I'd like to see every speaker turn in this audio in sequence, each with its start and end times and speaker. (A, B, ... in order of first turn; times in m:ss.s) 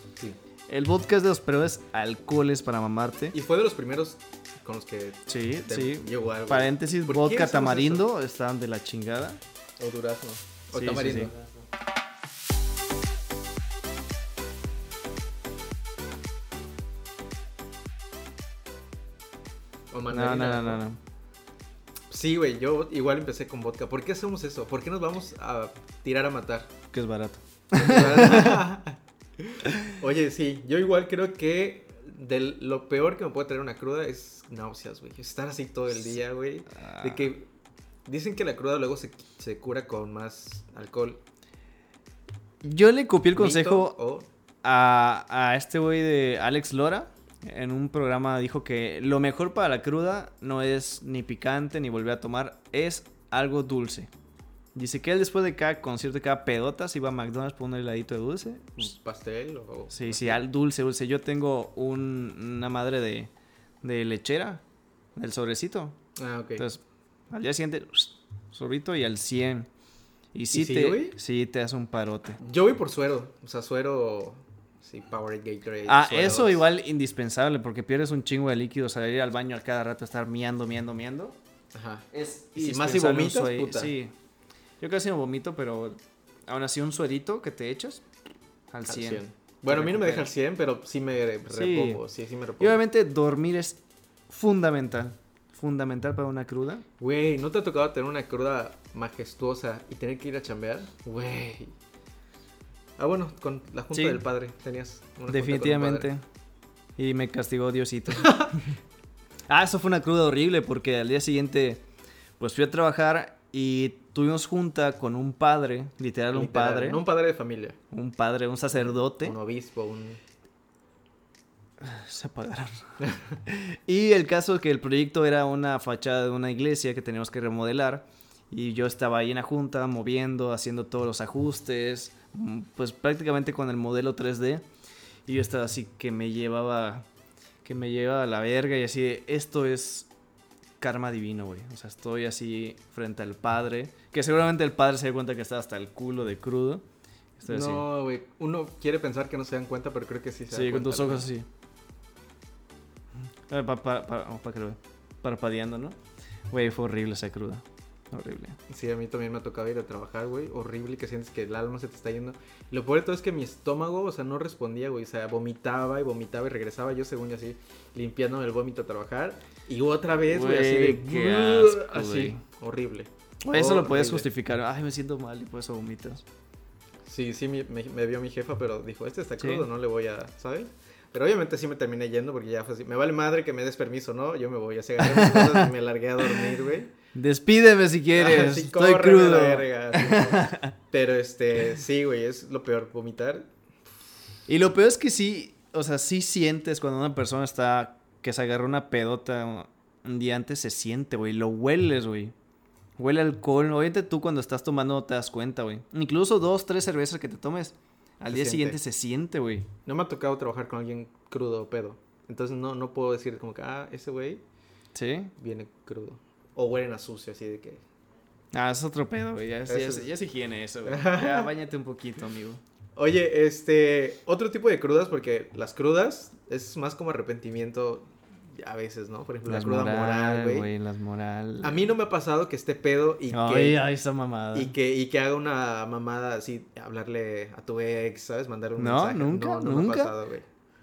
0:00.7-0:03.3 A
0:03.3-0:08.1 B
0:05.3-0:09.4 A
0:09.8-0:11.4 B
0:10.7-0:11.3 A
0:19.9-0:20.8 B
0:20.1-0:21.0 A
0:22.1-0:26.7 B
0:26.9-0:28.7 A
0:27.7-0:37.5 B
0:36.7-0:37.3 A
0:38.1-0:41.2 B
0:42.6-0:43.9 A
0:43.4-0:44.3 B
0:44.6-0:54.1 A
0:54.7-0:58.9 A
0:58.8-1:00.4 B
0:59.9-1:03.3 A
1:03.8-1:04.6 A
1:05.2-1:06.0 A
1:06.2-1:06.6 B
1:06.6-1:09.7 A
1:10.3-1:12.4 A
1:10.5-1:11.2 B
1:12.4-1:16.7 B
1:15.9-1:21.4 A
1:21.7-1:23.9 B
1:22.1-1:24.1 A
1:24.8-1:28.0 A
1:28.7-1:30.3 A
1:28.9-1:32.8 B
1:31.5-1:32.0 A
1:32.6-1:36.8 A
1:37.0-1:41.7 B
1:43.0-1:46.1 B
1:43.9-1:44.2 A
1:45.3-1:46.2 A
1:47.0-1:48.6 A
1:48.1-1:48.6 B
1:49.5-1:51.8 A
1:52.4-1:57.0 A
1:56.3-1:57.8 B
1:57.9-1:59.4 A
1:58.7-2:00.2 B
2:01.8-2:02.7 A
2:03.4-2:14.6 A
2:15.3-2:17.0 A
2:17.6-2:20.1 A
2:20.8-2:26.8 A
2:27.4-2:27.8 A
2:27.5-2:31.3 B
2:30.5-2:31.5 A
2:33.5-2:36.0 A
2:36.5-2:38.6 A
2:38.7-2:54.3 B
2:50.3-2:52.4 A
2:53.4-2:56.2 A
2:57.0-3:06.9 B
2:59.4-2:59.6 A
3:05.0-3:05.7 A
3:07.1-3:10.7 A
3:08.1-3:13.5 B
3:14.5-3:22.3 A
3:23.0-3:29.7 A
3:28.3-3:28.8 B
3:29.8-3:34.4 B
3:34.9-3:35.3 A
3:35.4-3:37.8 B
3:38.5-3:42.6 A
3:39.7-3:40.1 B
3:40.8-3:41.5 B
3:43.0-3:50.7 B
3:49.4-3:51.9 A
3:51.6-3:53.8 B
3:53.3-3:54.7 A
3:54.5-4:00.4 B
3:58.8-4:00.1 A